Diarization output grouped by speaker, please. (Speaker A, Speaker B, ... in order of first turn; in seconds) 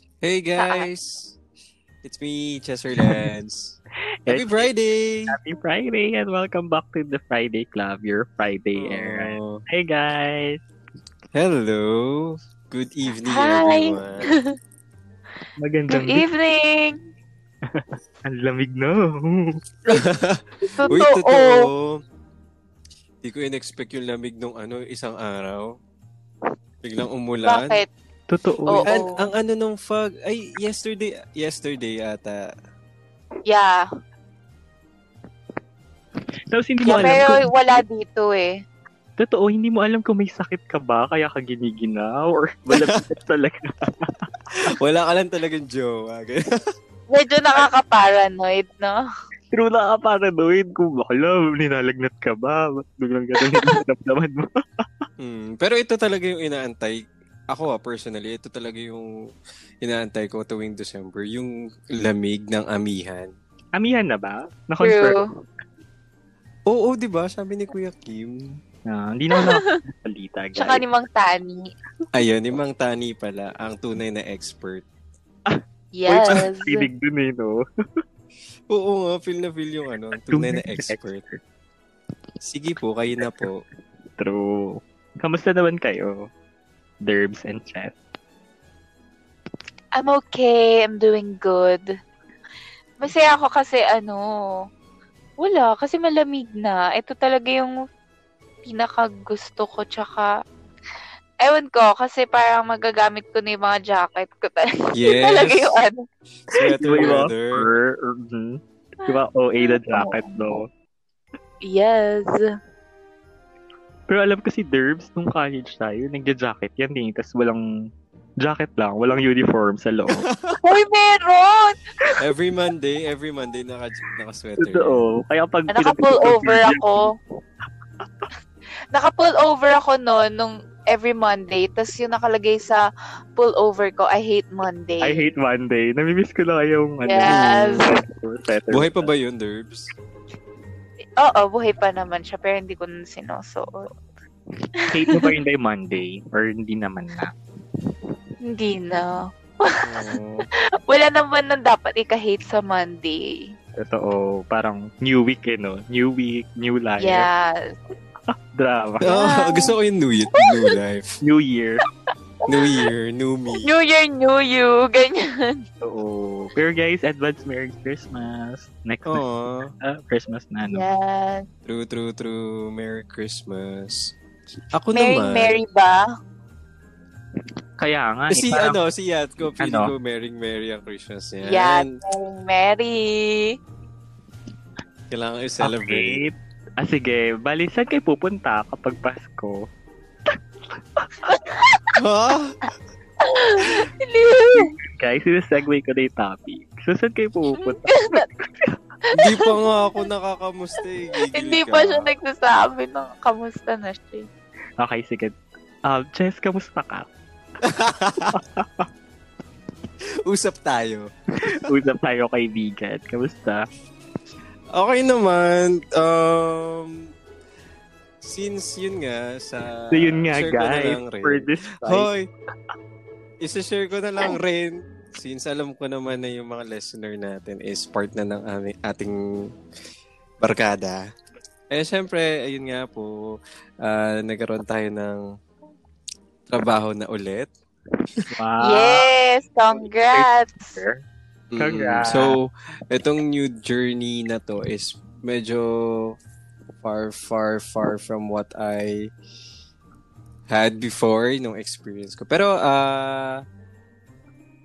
Speaker A: 0.2-1.4, 2.0-3.8, 4.3-5.3, 8.8-9.6, 11.3-14.3, 19.9-22.0, 23.2-25.7, 26.8-27.8, 28.9-32.5, 44.7-46.4, 55.2-57.0, 57.5-59.1, 59.8-63.3, 66.7-68.4, 72.1-74.8, 78.7-81.2, 82.4-83.6, 105.0-105.8, 106.5-107.7, 120.1-120.6, 122.2-125.0, 137.3-137.9, 138.7-139.9, 149.8-150.2, 159.0-161.2, 162.5-163.7, 169.1-169.7, 171.7-174.1, 174.7-175.6, 178.3-182.0, 185.1-186.2, 191.9-192.6, 199.2-202.1, 207.6-208.4, 210.2-211.7, 214.7-217.1, 218.2-222.2, 223.4-229.2, 230.4-231.0, 231.7-233.1, 233.8-235.2, 236.5-237.5, 241.5-246.2, 246.8-249.1, 250.5-253.4
Speaker B: 0.6-0.9, 13.2-14.5, 15.9-17.0, 20.6-21.7, 27.4-27.9, 28.7-29.2, 33.5-33.9, 36.9-38.5, 47.1-49.0, 53.5-53.8, 64.8-65.3, 69.3-69.8, 70.6-71.7, 75.9-76.8, 90.0-91.8, 93.0-94.2, 95.4-97.7, 98.6-100.3, 101.4-106.0, 106.5-107.0, 109.6-110.5, 111.7-112.4, 120.6-121.9, 125.7-127.1, 128.9-132.8, 133.4-135.3, 137.0-137.9, 141.2-143.9, 144.8-145.3, 148.5-150.2, 150.9-153.4, 157.0-157.8, 159.1-159.7, 160.4-160.7, 162.5-162.9, 163.6-165.6, 170.7-171.4, 174.9-176.0, 181.5-183.5, 191.2-192.0, 193.2-194.7, 197.6-198.3, 199.3-199.8, 201.3-204.3, 238.6-240.8
Speaker C: 4.2-4.7, 5.3-10.6, 15.6-16.3, 17.7-19.6, 28.3-28.9, 36.5-37.5, 39.2-44.3, 49.5-54.9, 63.8-65.2, 68.9-70.8, 75.5-77.6, 80.3-81.4, 84.2-86.2, 87.0-88.0, 106.8-110.7, 114.1-117.6, 118.4-120.2, 124.6-127.1, 135.0-139.1, 144.9-147.3, 153.8-157.3, 158.3-159.1, 161.2-161.8, 165.8-169.2, 169.8-170.8, 177.8-178.8, 179.6-179.9, 185.6-189.6, 194.5-198.8, 204.8-205.3, 205.9-207.1, 208.3-208.9, 211.4-213.6, 219.9-222.1, 238.3-239.1, 239.7-241.0, 241.6-242.3